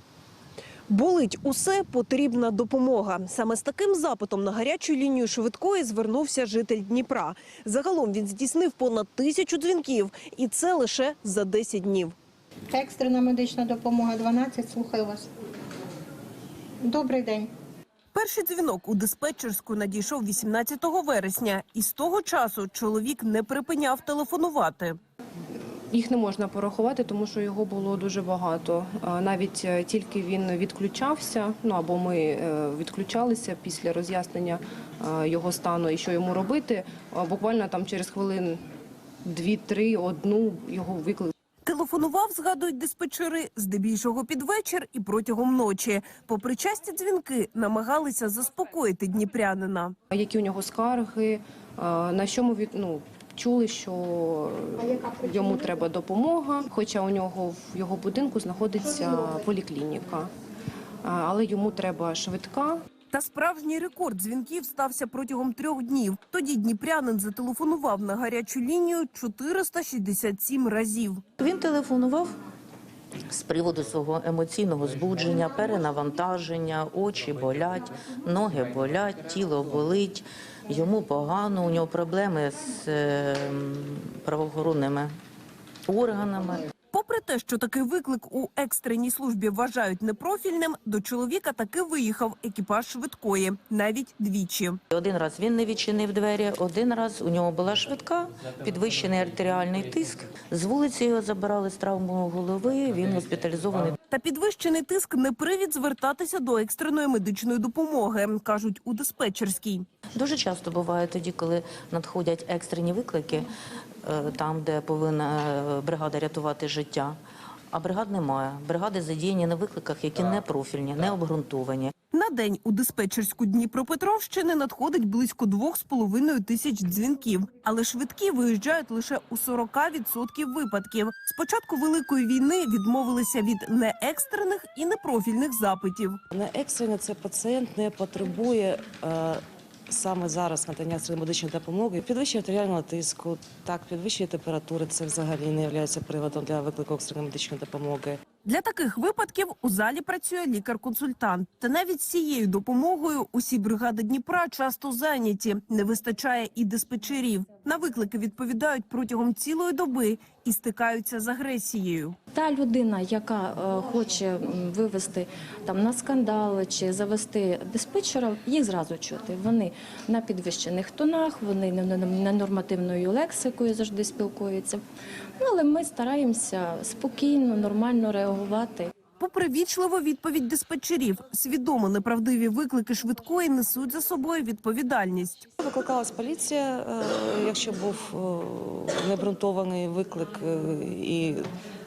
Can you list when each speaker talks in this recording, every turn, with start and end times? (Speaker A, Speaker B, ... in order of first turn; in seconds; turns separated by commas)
Speaker A: 0.9-12.1, Speaker B: 12.7-15.3, Speaker B: 16.8-17.5, Speaker A: 18.1-24.9, Speaker C: 25.9-38.6, Speaker C: 39.2-41.3, Speaker A: 41.6-49.9, Speaker C: 50.1-60.3, Speaker C: 61.0-62.8, Speaker A: 63.1-71.2, Speaker D: 71.4-72.3, Speaker D: 73.3-85.1, Speaker D: 85.9-86.7, Speaker A: 86.9-94.8, Speaker D: 94.9-104.0, Speaker A: 104.1-109.8, Speaker D: 110.1-113.5, Speaker D: 114.0-117.2, Speaker D: 117.7-121.9, Speaker A: 122.1-136.2, Speaker E: 136.3-148.2, Speaker A: 148.4-162.2, Speaker F: 162.3-174.8, Speaker F: 175.4-178.9, Speaker A: 179.2-185.5, Speaker E: 185.6-191.4